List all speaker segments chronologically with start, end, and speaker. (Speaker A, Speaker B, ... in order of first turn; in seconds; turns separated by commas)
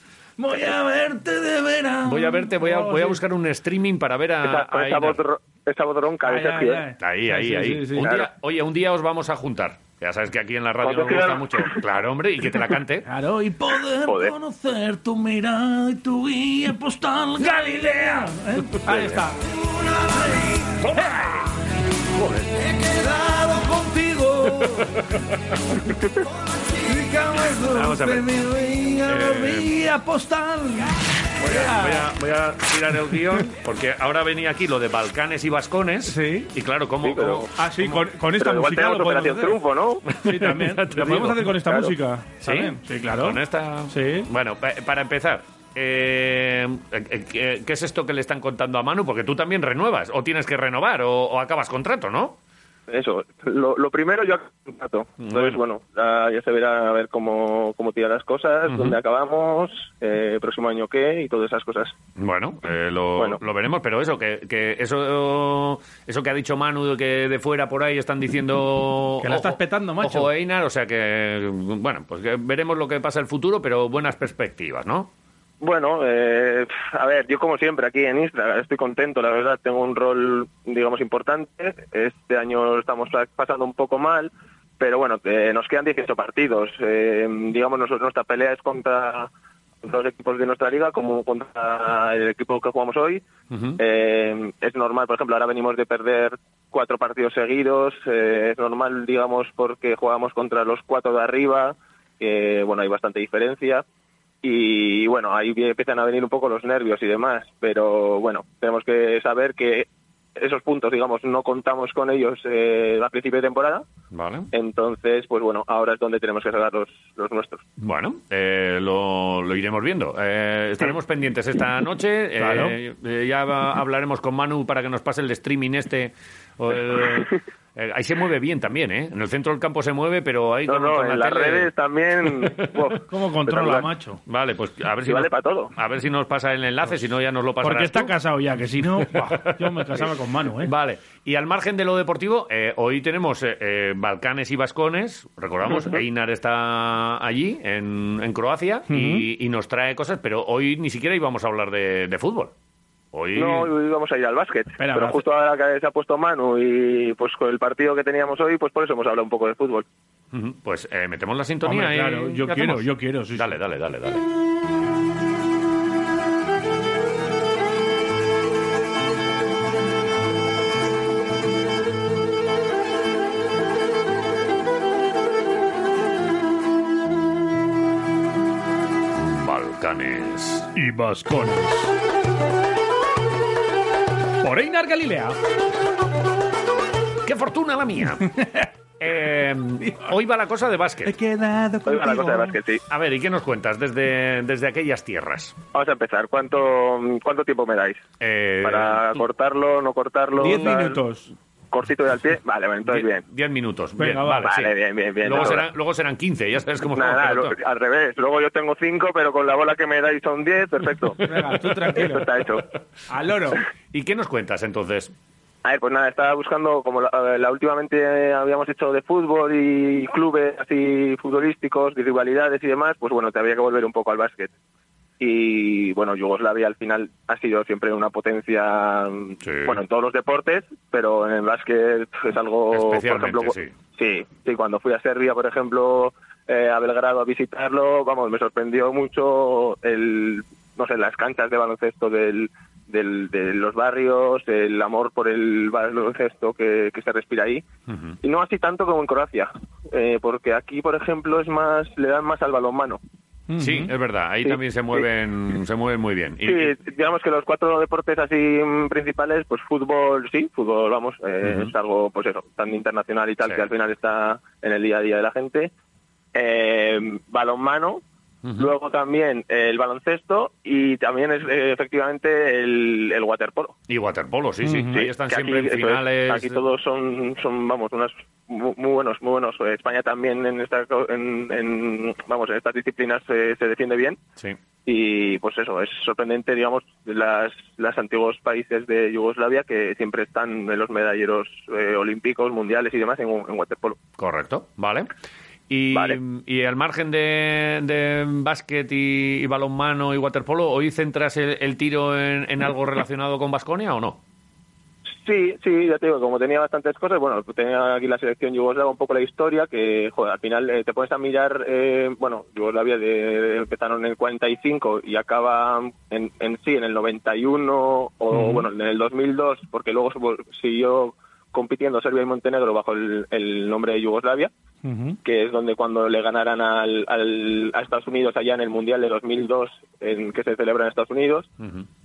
Speaker A: 0.4-3.2, Speaker B: 2.0-5.2, Speaker C: 4.4-6.8, Speaker A: 6.2-8.1, Speaker B: 7.0-13.1, Speaker C: 8.0-8.3, Speaker C: 10.8-11.8, Speaker A: 13.0-21.3, Speaker C: 14.1-14.3, Speaker B: 18.7-19.2, Speaker B: 20.8-21.5, Speaker B: 22.1-22.6, Speaker A: 22.8-24.9, Speaker B: 24.7-25.0, Speaker A: 26.8-32.1, Speaker B: 27.7-28.4, Speaker B: 29.1-29.7, Speaker B: 31.4-38.0, Speaker A: 36.0-36.5, Speaker C: 37.0-37.5, Speaker A: 37.5-39.5, Speaker C: 38.4-40.0, Speaker B: 40.1-41.5, Speaker A: 40.1-44.3, Speaker C: 41.6-41.9, Speaker B: 42.4-52.4, Speaker C: 52.9-61.9, Speaker B: 55.2-55.6, Speaker B: 58.7-59.0, Speaker B: 62.2-75.1, Speaker A: 69.2-70.3, Speaker C: 75.6-89.3, Speaker C: 89.8-93.2, Speaker B: 93.5-93.8, Speaker C: 93.8-103.8, Speaker C: 104.4-113.8, Speaker B: 114.1-114.5, Speaker C: 114.5-117.6, Speaker B: 117.8-131.7, Speaker A: 122.4-122.8, Speaker C: 130.7-133.9, Speaker B: 132.2-132.8, Speaker A: 133.1-134.2, Speaker B: 134.3-138.1, Speaker C: 135.0-135.7, Speaker A: 137.6-140.7, Speaker B: 139.0-152.5, Speaker C: 145.7-146.0, Speaker A: 148.9-149.3, Speaker B: 153.1-153.7, Speaker C: 153.3-159.8, Speaker A: 154.8-155.2, Speaker B: 160.3-164.2, Speaker A: 161.6-163.6, Speaker B: 179.2-180.7, Speaker A: 180.7-181.9, Speaker A: 184.4-185.4, Speaker B: 187.2-188.3, Speaker A: 188.2-188.7, Speaker B: 189.0-191.1, Speaker A: 189.8-190.1, Speaker A: 191.0-192.6, Speaker C: 191.8-192.8, Speaker B: 192.9-195.6, Speaker C: 195.7-198.0, Speaker B: 198.2-199.2, Speaker C: 198.6-201.0, Speaker A: 200.4-201.3, Speaker C: 201.7-203.2, Speaker B: 202.8-207.6, Speaker A: 204.0-204.5, Speaker C: 204.4-205.7, Speaker C: 206.9-211.2, Speaker A: 211.2-212.3, Speaker C: 211.9-212.7, Speaker A: 213.1-213.6, Speaker B: 213.9-215.1, Speaker C: 215.6-224.5, Speaker C: 225.2-247.6, Speaker B: 229.4-229.8, Speaker B: 232.7-233.7, Speaker B: 247.9-248.2, Speaker C: 248.2-253.0, Speaker A: 253.5-253.9, Speaker B: 253.6-256.7, Speaker C: 254.4-255.0, Speaker C: 256.4-265.7, Speaker B: 261.4-261.7, Speaker C: 266.3-268.0, Speaker B: 268.4-268.7, Speaker C: 268.6-273.7, Speaker B: 273.9-276.6, Speaker A: 274.6-275.0, Speaker C: 274.9-284.2, Speaker C: 284.8-294.0, Speaker B: 294.2-295.1, Speaker B: 295.7-304.2, Speaker C: 305.2-324.5, Speaker A: 318.3-318.6, Speaker A: 324.8-325.2, Speaker C: 325.2-331.5